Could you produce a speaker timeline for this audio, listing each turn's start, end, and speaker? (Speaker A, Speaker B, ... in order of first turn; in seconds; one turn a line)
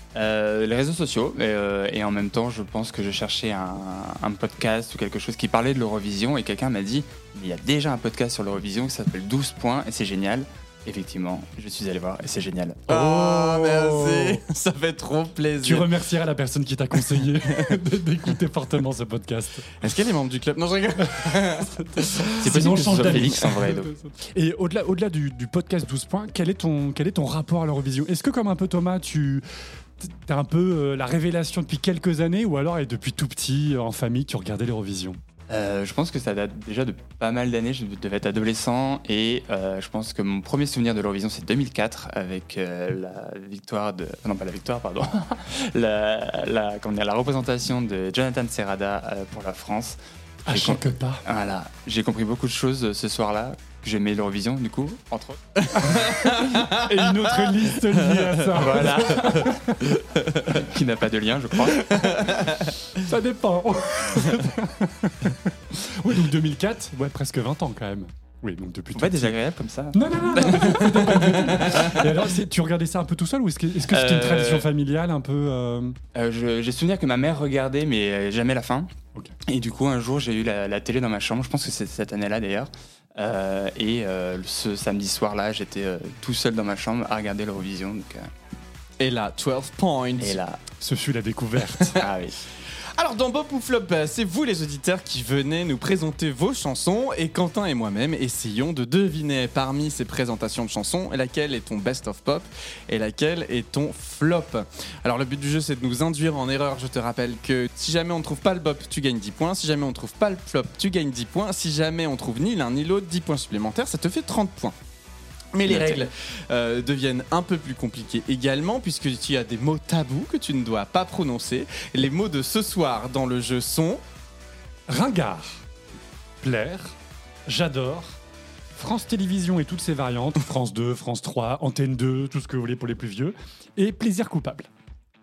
Speaker A: 0.1-12.9
Speaker B: 12.9-14.4
Speaker C: 12.9-15.9
Speaker B: 15.6-19.8
Speaker C: 17.1-17.8
Speaker C: 19.8-23.3
Speaker B: 21.8-29.4
Speaker A: 22.4-23.9
Speaker B: 30.0-35.2
Speaker A: 35.5-55.4
Speaker B: 50.5-51.2
Speaker C: 55.6-56.9
Speaker B: 55.8-59.8
Speaker C: 57.5-58.3
Speaker A: 58.5-59.6
Speaker C: 60.0-60.4
Speaker A: 60.5-61.9
Speaker B: 61.7-69.3
Speaker C: 62.1-62.7
Speaker A: 69.0-71.9
Speaker B: 69.9-76.0
Speaker A: 73.9-74.7
Speaker A: 76.1-78.9
Speaker A: 79.5-88.3
Speaker C: 89.0-90.4
Speaker A: 90.2-90.6
Speaker B: 90.8-92.0
Speaker A: 92.0-92.4
Speaker C: 93.0-114.8
Speaker C: 115.5-124.0
Speaker A: 115.7-116.1
Speaker B: 124.9-125.6
Speaker B: 126.4-128.2
Speaker B: 128.8-134.7